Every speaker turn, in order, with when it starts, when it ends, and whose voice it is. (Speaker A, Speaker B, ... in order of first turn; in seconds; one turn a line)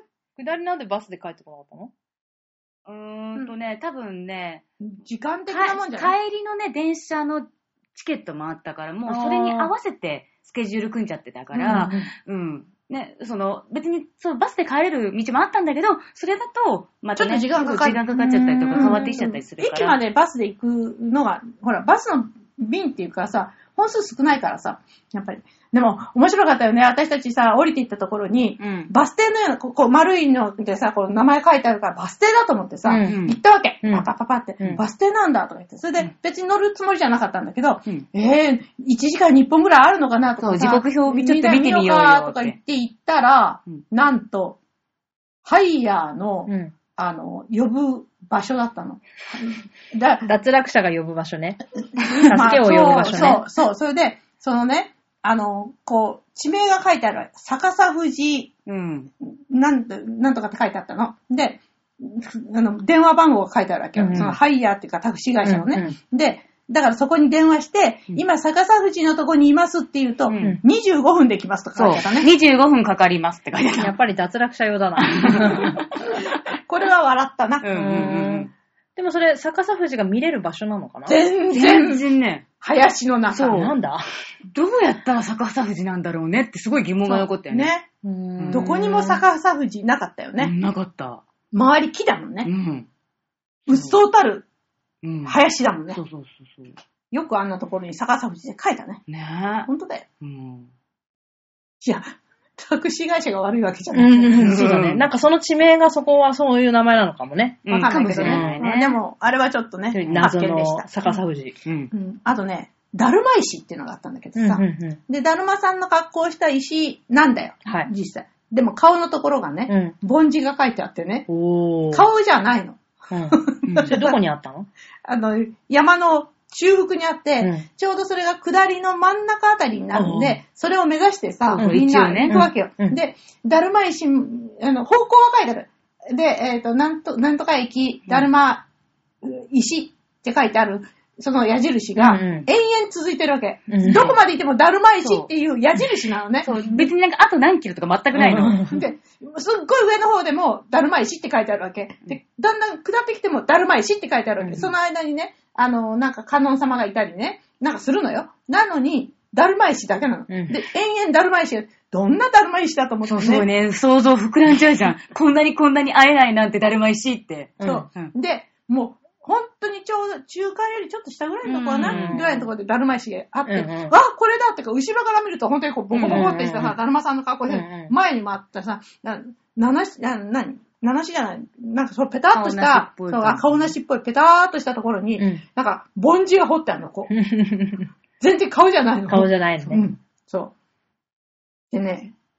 Speaker A: 0.4-1.9
Speaker B: 2.9-4.6
Speaker C: 4.8-6.2
Speaker B: 5.5-20.0
Speaker A: 9.1-9.7
Speaker C: 11.6-12.0
Speaker A: 11.6-12.1
Speaker C: 17.1-18.0
Speaker A: 18.1-19.2
Speaker C: 18.7-44.6
Speaker B: 28.6-28.9
Speaker A: 32.8-33.2
Speaker B: 33.0-33.4
Speaker B: 40.4-42.5
Speaker C: 45.4-50.3
Speaker A: 46.5-46.7
Speaker A: 50.2-53.4
Speaker C: 52.0-58.5
Speaker B: 58.7-59.1
Speaker C: 59.2-72.3
Speaker A: 64.0-64.4
Speaker A: 65.4-66.0
Speaker B: 70.3-70.6
Speaker B: 71.8-73.9
Speaker A: 73.8-75.8
Speaker B: 75.0-76.2
Speaker C: 76.1-77.7
Speaker B: 77.6-78.5
Speaker A: 77.7-81.2
Speaker C: 81.1-82.0
Speaker B: 81.5-82.5
Speaker C: 82.6-83.6
Speaker B: 83.3-83.7
Speaker A: 83.5-84.0
Speaker B: 84.5-87.7
Speaker C: 87.0-87.9
Speaker A: 88.0-89.2
Speaker B: 88.4-88.8
Speaker C: 88.5-90.5
Speaker B: 90.4-91.2
Speaker C: 91.5-92.5
Speaker B: 92.4-92.9
Speaker C: 93.7-94.5
Speaker B: 95.0-95.4
Speaker C: 95.2-96.0
Speaker B: 95.9-96.8
Speaker C: 97.1-99.0
Speaker B: 99.1-99.7
Speaker C: 99.6-100.0
Speaker B: 100.2-100.7
Speaker C: 101.8-104.5
Speaker A: 103.9-108.6
Speaker B: 104.3-105.0
Speaker B: 107.6-109.0
Speaker C: 107.7-111.2
Speaker A: 109.9-111.5
Speaker B: 110.0-110.3
Speaker B: 111.6-111.9
Speaker C: 111.9-121.3
Speaker A: 114.3-115.0
Speaker A: 119.7-119.9
Speaker A: 121.3-122.1
Speaker C: 121.9-124.2
Speaker A: 123.1-124.7
Speaker C: 125.0-138.7
Speaker A: 127.4-127.7
Speaker A: 129.9-130.4
Speaker B: 131.5-132.4
Speaker A: 131.6-133.0
Speaker C: 139.2-146.9
Speaker A: 141.9-142.5
Speaker A: 143.7-144.1
Speaker B: 145.0-145.3
Speaker B: 146.4-148.6
Speaker A: 148.2-148.8
Speaker C: 148.2-163.5
Speaker A: 154.4-154.7
Speaker A: 160.3-160.6
Speaker B: 163.0-168.1
Speaker A: 167.6-167.9
Speaker C: 167.6-187.1
Speaker B: 171.4-172.5
Speaker A: 171.8-172.2
Speaker A: 173.5-173.9
Speaker B: 175.9-176.4
Speaker A: 176.0-176.8
Speaker A: 177.5-177.9
Speaker B: 182.3-183.7
Speaker A: 185.2-185.4
Speaker A: 187.1-187.9
Speaker C: 188.2-190.5
Speaker A: 189.1-189.8
Speaker C: 191.7-192.1